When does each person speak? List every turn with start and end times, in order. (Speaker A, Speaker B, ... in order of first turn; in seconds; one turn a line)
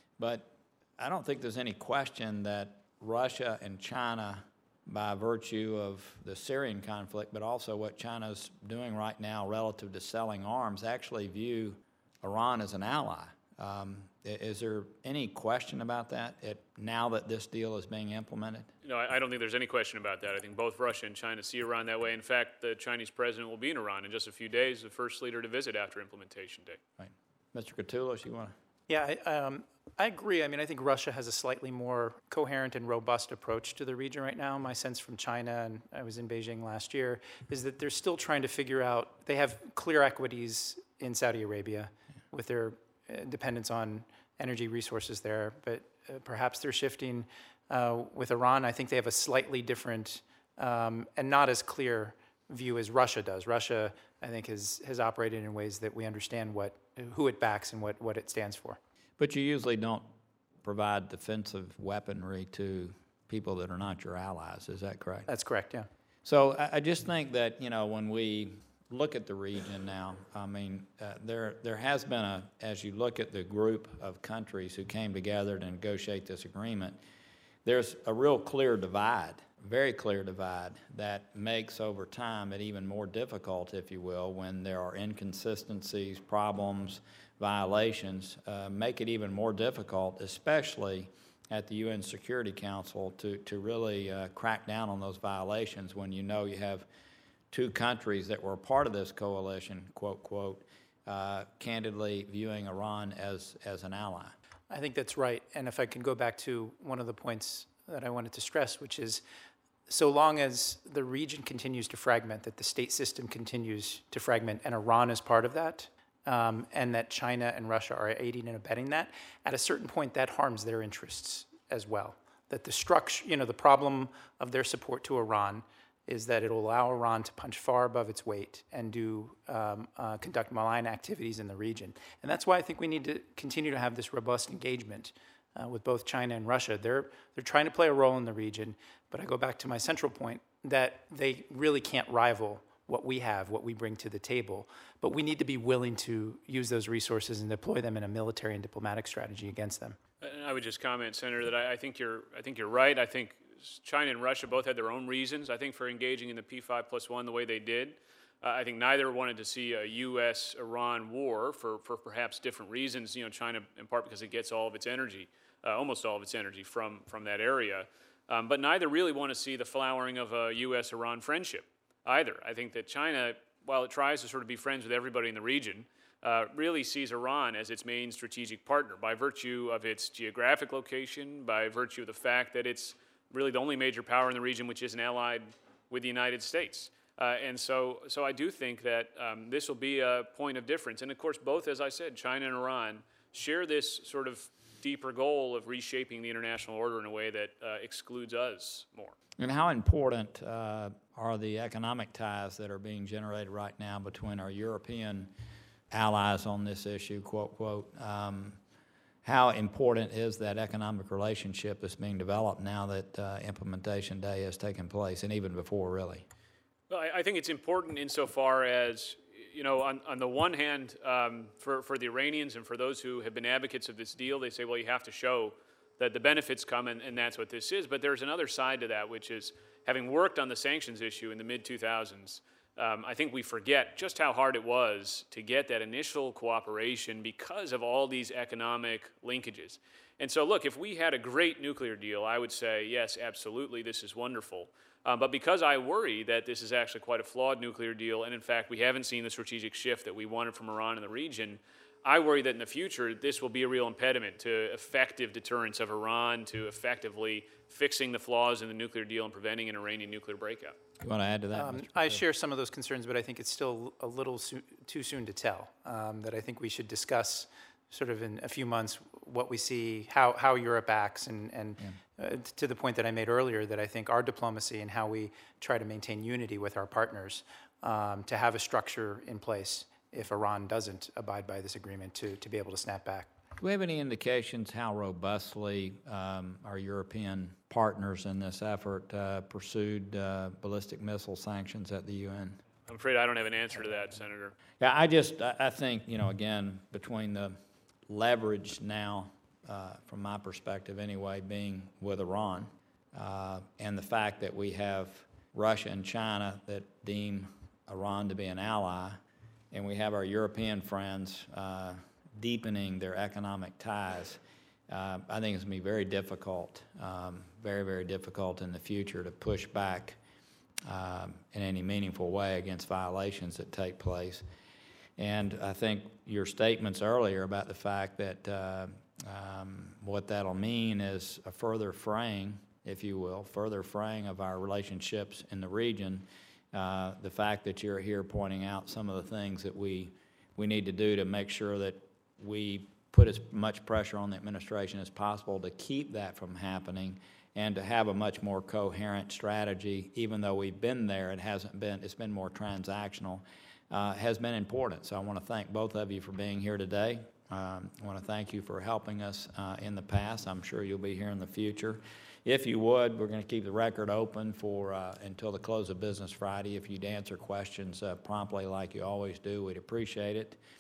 Speaker A: 0.2-18.7
Speaker B: 18.8-26.8
Speaker A: 27.0-28.6
Speaker C: 28.9-58.8
Speaker A: 59.2-60.1
Speaker A: 60.6-65.3
Speaker C: 65.3-65.9
Speaker A: 66.2-77.0
Speaker A: 77.6-96.9
Speaker A: 97.5-104.3
Speaker C: 104.7-109.2
Speaker C: 109.9-150.0
Speaker B: 150.2-199.2
Speaker A: 199.4-205.3
Speaker A: 205.9-208.6
Speaker A: 209.2-216.3
Speaker B: 216.9-260.8
Speaker A: 261.0-262.2
Speaker C: 261.5-283.3
Speaker A: 283.6-292.6
Speaker B: 292.9-294.5
Speaker A: 294.8-309.2
Speaker A: 309.7-320.2
Speaker A: 320.9-324.4
Speaker A: 325.2-370.6